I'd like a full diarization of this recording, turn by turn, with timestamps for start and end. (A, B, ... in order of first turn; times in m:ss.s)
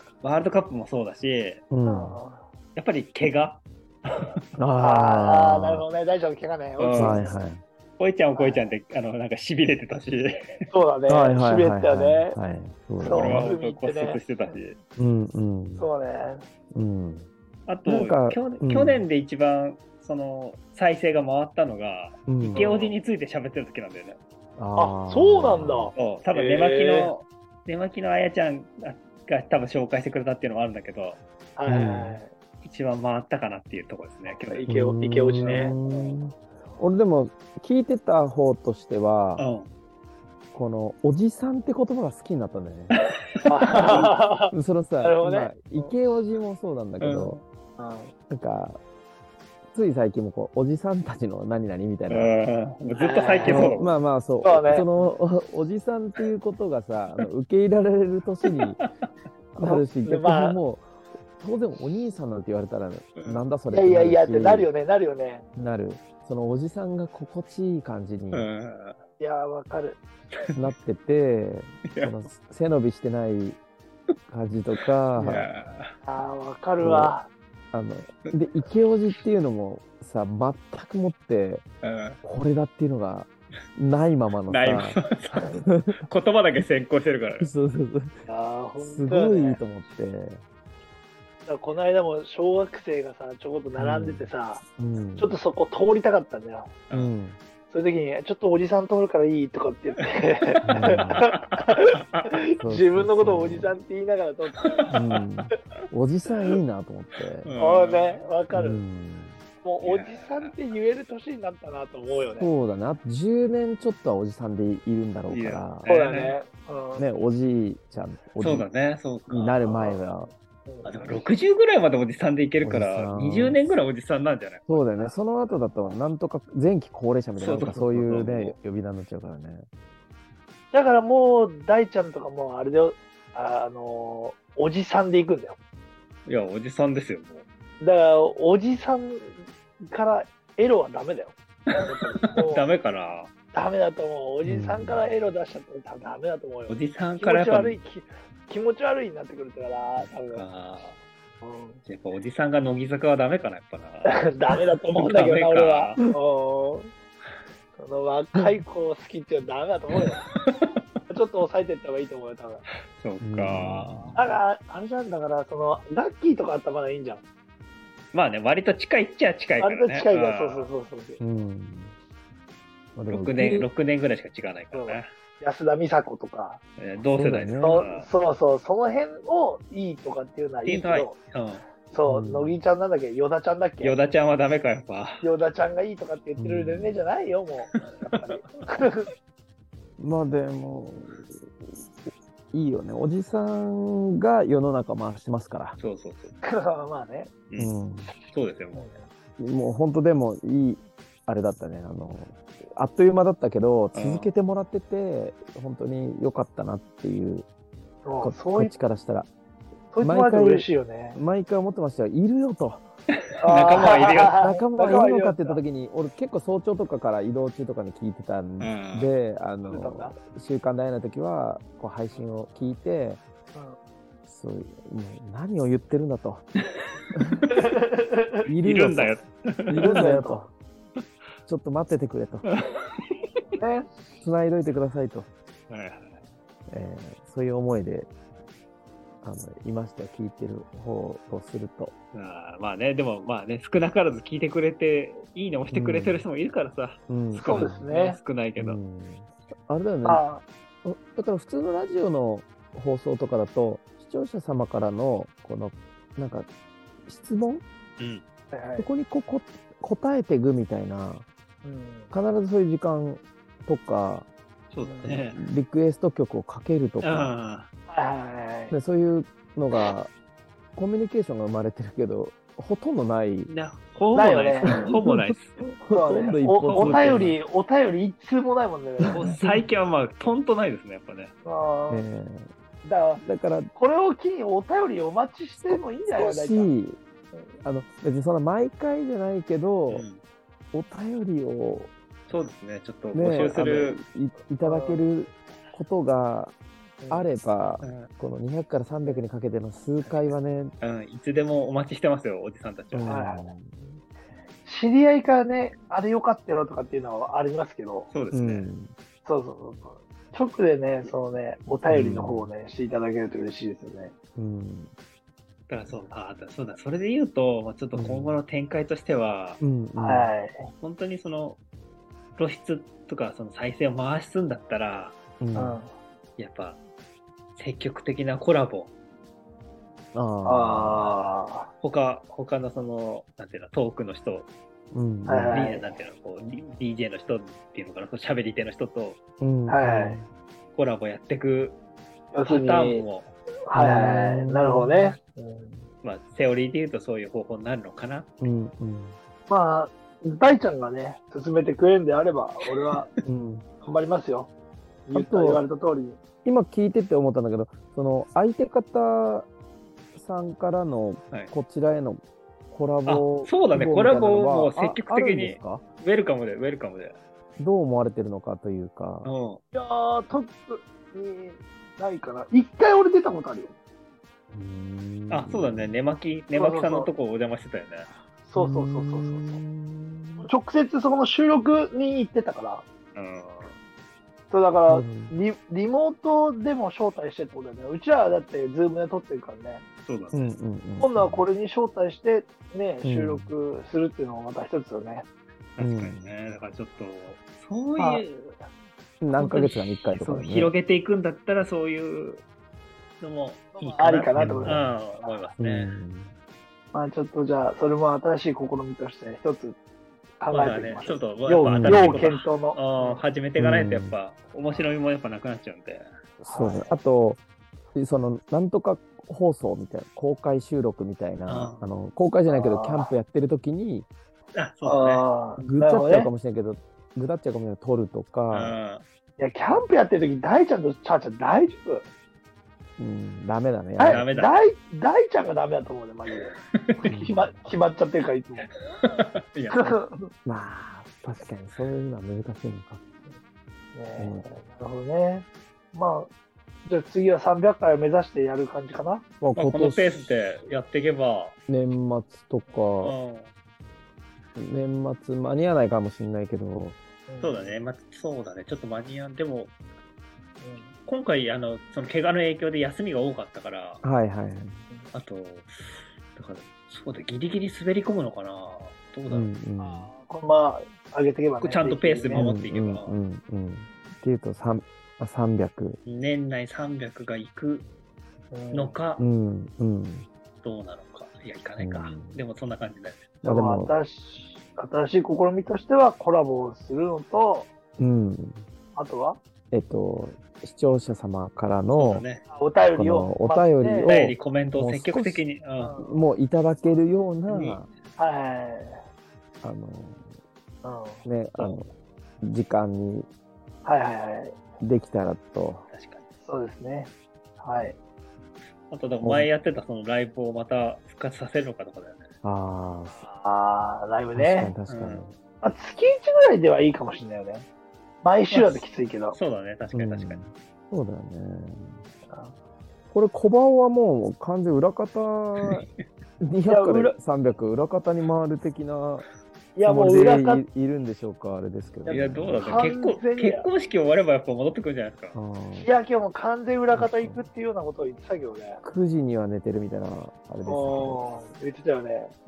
0:00.2-0:01.6 A
0:01.7-0:02.2 B
0:01.8-0:02.4 C
0:02.8-0:04.3 A
0:04.6-0:05.8 B
0:04.8-0:07.3 C
0:06.8-0:07.3 A
0:07.0-0:07.6 B
0:08.0-0:10.6 A
0:08.4-0:08.7 C
0:10.7-0:12.4 C
0:11.1-0:13.5 B
0:13.0-0:14.6 C
0:13.0-0:14.8 A
0:15.0-0:15.9 B
0:15.8-0:16.4 C
0:16.7-0:17.3 B
0:17.7-0:24.2 A
0:17.8-0:19.0 B
0:22.3-0:22.7 B
0:22.5-0:23.0 C
0:24.6-0:25.9 B
0:24.8-0:27.1 C
0:25.9-0:31.2 A
0:31.6-0:32.3 C
0:31.6-0:32.2 B
0:32.6-0:34.7 A
0:34.2-0:36.2 C
0:34.7-0:39.4 B
0:35.4-0:35.7 A
0:39.4-0:39.7 A
0:40.5-0:43.0 B
0:43.4-0:45.9 C
0:43.7-0:44.0 A
0:43.9-0:47.4 B
0:47.0-0:47.4 A
0:47.8-0:48.1 C
0:48.3-0:48.8 B
0:49.7-0:52.3 B
0:52.1-0:53.9 A
0:52.9-0:53.8 C
0:53.4-0:58.8 B
0:54.4-0:54.9 C
0:59.5-1:04.7 B
0:59.6-1:00.6 C
1:03.7-1:05.4 C
1:05.6-1:08.5 B
1:08.3-1:09.0 A
1:09.2-1:10.0 C
1:10.6-1:13.6 B
1:11.9-1:12.3 A
1:14.3-1:15.5 B
1:15.2-1:15.9 A
1:16.0-1:17.3 C
1:16.8-1:17.1 B
1:17.7-1:21.6 B
1:21.8-1:22.2 A
1:22.2-1:26.0 B
1:24.5-1:27.5 A
1:27.4-1:28.2 B
1:28.3-1:29.6 C
1:28.8-1:30.4 B
1:31.4-1:34.6 C
1:33.8-1:35.3 B
1:35.2-1:36.7 C
1:36.9-1:37.4 B
1:37.7-1:44.9 C
1:40.5-1:42.3 A
1:40.6-1:41.2 B
1:42.6-1:43.7 B
1:44.6-1:44.9 A
1:44.9-1:47.5 B
1:47.4-1:48.3 A
1:47.6-1:48.8 C
1:48.5-1:49.4 B
1:49.6-1:52.5 C
1:49.8-1:50.6 A
1:52.4-1:55.9 B
1:55.3-1:56.4 A
1:55.8-1:57.0 C
1:57.0-1:58.7 B
1:58.4-2:00.0 A
1:59.3-2:00.3 B
2:00.7-2:01.2 C
2:00.8-2:05.1 A
2:02.6-2:03.6 B
2:04.7-2:09.6 B
2:05.0-2:05.6 C
2:07.4-2:08.6 A
2:10.7-2:15.6 C
2:16.2-2:17.4 A
2:17.8-2:22.7 C
2:21.7-2:23.3 A
2:23.5-2:30.4 C
2:24.4-2:25.0 B
2:26.7-2:27.8 A
2:30.0-2:31.0 A
2:31.4-2:31.8 C
2:31.8-2:36.0 A
2:34.0-2:36.9 C
2:37.8-2:40.2 C
2:39.9-2:40.8 A
2:41.1-2:42.6 C
2:42.9-2:44.2 A
2:43.2-2:44.3 B
2:44.2-2:47.2 C
2:48.1-2:50.7 A
2:49.6-2:51.2 C
2:51.2-2:51.9 B
2:53.0-2:53.7 B
2:53.1-2:55.1 A
2:54.7-2:56.6 C
2:56.8-2:58.1 A
2:57.1-2:57.8 B
2:57.6-3:01.1 C
3:00.6-3:01.6 A
3:01.9-3:04.0 C
3:02.0-3:02.6 B
3:03.8-3:05.2 A
3:05.2-3:09.1 C
3:06.4-3:07.0 B
3:07.6-3:08.7 A
3:10.0-3:11.5 B
3:12.5-3:15.8 B
3:15.8-3:16.4 A
3:16.4-3:17.3 C
3:17.6-3:18.1 B
3:18.3-3:18.9 A
3:18.7-3:19.0 C
3:19.4-3:27.5 B
3:23.9-3:24.3 A
3:28.0-3:28.7 C
3:28.2-3:29.3 B
3:29.9-3:31.2 C
3:30.0-3:32.9 B
3:33.4-3:35.6 C
3:33.4-3:34.4 A
3:34.2-3:43.2 B
3:38.6-3:39.1 A
3:39.7-3:40.1 C
3:43.5-3:43.8 C
3:44.3-3:46.5 B
3:47.5-3:48.4 C
3:48.5-3:50.5 B
3:48.5-3:49.9 A
3:49.8-3:50.4 C
3:51.5-3:52.5 B
3:52.4-3:53.2 A
3:53.6-3:53.8 C
3:54.2-3:55.3 B
3:55.7-3:56.2 A
3:56.7-3:58.1 B
3:59.2-4:01.9 B
4:02.1-4:08.8 A
4:05.7-4:06.2 B
4:07.1-4:07.8 B
4:07.3-4:08.2 C
4:08.6-4:10.2 B
4:10.0-4:10.4 C
4:10.8-4:16.5 B
4:17.0-4:17.6 B
4:18.0-4:18.2 A
4:18.5-4:18.9 C
4:18.8-4:21.2 B
4:21.6-4:22.1 C
4:22.1-4:24.3 B
4:24.7-4:25.4 A
4:24.8-4:25.1 C
4:25.0-4:27.3 B
4:27.0-4:27.7 A
4:27.9-4:28.7 C
4:28.7-4:30.1 B
4:30.8-4:33.5 B
4:33.5-4:35.6 A
4:34.1-4:34.8 C
4:34.6-4:37.4 B
4:35.9-4:39.3 C
4:36.3-4:37.4 A
4:39.0-4:39.6 B
4:39.1-4:41.3 A
4:41.4-4:42.0 C
4:41.9-4:42.5 B
4:42.8-4:46.7 C
4:43.2-4:43.7 B
4:45.6-4:47.0 B
4:47.6-4:50.0 B
4:49.9-4:50.2 A
4:50.7-4:51.9 B
4:52.3-4:54.0 A
4:53.1-4:56.6 B
4:54.6-4:55.1 C
4:57.0-4:57.3 C
4:57.1-5:00.7 B
4:57.8-4:58.1 A
5:00.0-5:03.2 A
5:02.9-5:03.7 B
5:03.1-5:04.0 C
5:04.6-5:08.1 C
5:08.1-5:08.7 A
5:08.3-5:08.9 B
5:09.2-5:14.1 C
5:11.9-5:12.5 B
5:14.4-5:14.9 B
5:15.7-5:19.6 A
5:17.9-5:18.4 B
5:19.6-5:20.3 B
5:20.0-5:20.7 C
5:20.7-5:21.6 A
5:22.4-5:25.2 A
5:25.4-5:25.8 B
5:25.5-5:25.9 C
5:26.4-5:26.8 A
5:27.6-5:28.9 A
5:30.1-5:31.1 B
5:30.4-5:31.7 C
5:31.8-5:34.5 A
5:34.9-5:35.6 B
5:35.2-5:35.9 C
5:35.5-5:39.2 A
5:39.4-5:40.3 B
5:39.7-5:40.2 C
5:40.7-5:41.8 A
5:42.3-5:43.0 C
5:42.4-5:43.3 A
5:43.7-5:45.8 C
5:43.7-5:45.2 B
5:46.0-5:48.6 A
5:48.4-5:49.2 B
5:49.5-5:53.1 C
5:53.2-5:53.6 B
5:53.8-5:54.5 C
5:55.1-5:56.2 C
5:55.1-5:55.6 B
5:56.4-5:59.5 B
6:00.1-6:05.8 B
6:03.0-6:07.2 A
6:07.6-6:09.3 B
6:09.2-6:09.6 A
6:09.7-6:13.7 C
6:14.5-6:16.0 B
6:15.3-6:18.1 A
6:16.5-6:17.1 C
6:18.4-6:19.6 C
6:18.6-6:20.5 B
6:20.4-6:22.8 C
6:23.1-6:23.7 A
6:24.5-6:29.8 C
6:24.9-6:25.4 B
6:30.0-6:30.5 A
6:30.3-6:31.4 B
6:31.0-6:35.2 C
6:33.0-6:33.5 B
6:35.8-6:38.5 A
6:35.8-6:36.3 B
6:38.0-6:38.2 C
6:39.2-6:40.7 B
6:39.4-6:42.4 A
6:43.2-6:46.0 A
6:43.8-6:45.5 C
6:44.3-6:44.8 B
6:45.6-6:46.3 B
6:46.9-6:49.8 C
6:50.4-6:53.2 C
6:50.5-6:56.0 A
6:51.6-6:52.2 B
6:53.6-6:54.1 B
6:56.4-6:57.4 B
6:56.5-6:56.9 C
6:57.9-7:04.1 B
7:01.5-7:01.8 A
7:02.5-7:03.1 C
7:04.5-7:05.2 A
7:04.8-7:06.3 C
7:05.6-7:08.8 B
7:08.5-7:09.0 A
7:09.4-7:12.0 C
7:13.0-7:14.2 B
7:14.0-7:16.5 C
7:14.0-7:14.6 A
7:16.3-7:17.3 A
7:17.0-7:17.6 B
7:17.2-7:18.7 C
7:19.0-7:20.0 A
7:19.7-7:20.3 C
7:20.4-7:23.0 B
7:23.9-7:26.3 C
7:24.2-7:24.4 B
7:26.8-7:29.2 C
7:29.4-7:30.3 B
7:29.5-7:31.6 A
7:31.7-7:33.1 B
7:33.0-7:33.5 A
7:34.6-7:37.0 B
7:37.3-7:37.8 C
7:37.4-7:39.7 A
7:40.6-7:40.9 C
7:41.0-7:44.0 A
7:44.0-7:44.8 B
7:45.1-7:49.5 A
7:49.3-7:50.1 B
7:49.8-7:52.5 C
7:51.6-7:53.2 A
7:52.3-7:56.0 B
7:56.0-7:57.9 A
7:58.5-7:58.9 C
7:58.7-7:59.2 A
7:59.2-8:00.3 B
8:00.6-8:03.3 A
8:01.8-8:02.4 B
8:03.4-8:07.7 C
8:03.4-8:03.9 B
8:08.0-8:08.7 B
8:08.9-8:09.4 C
8:09.7-8:12.2 B
8:11.9-8:12.4 A
8:12.5-8:14.1 C
8:12.9-8:15.4 B
8:14.0-8:16.0 A
8:15.8-8:16.2 C
8:16.0-8:17.9 B
8:17.5-8:17.8 A
8:18.2-8:19.0 C
8:19.6-8:20.3 B
8:20.8-8:21.2 C
8:21.2-8:21.9 B
8:22.4-8:23.3 B
8:23.8-8:24.6 C
8:24.8-8:25.8 B
8:25.9-8:26.2 A
8:26.4-8:28.0 C
8:28.9-8:32.2 A
8:29.2-8:29.5 B
8:32.4-8:33.2 B
8:33.1-8:34.7 C
8:34.3-8:35.3 B
8:34.9-8:35.3 A
8:35.6-8:37.6 C
8:38.2-8:39.4 C
8:38.5-8:40.4 A
8:39.9-8:42.0 B
8:42.3-8:42.5 C
8:43.1-8:45.8 B
8:46.4-8:49.3 B
8:46.7-8:47.2 C
8:49.8-8:50.6 C
8:49.8-8:52.9 B
8:52.0-8:53.7 C
8:52.1-8:55.4 A
8:55.3-8:55.9 B
8:55.8-8:58.8 C
8:56.9-8:57.4 B
8:58.8-9:01.2 B
9:00.6-9:02.3 C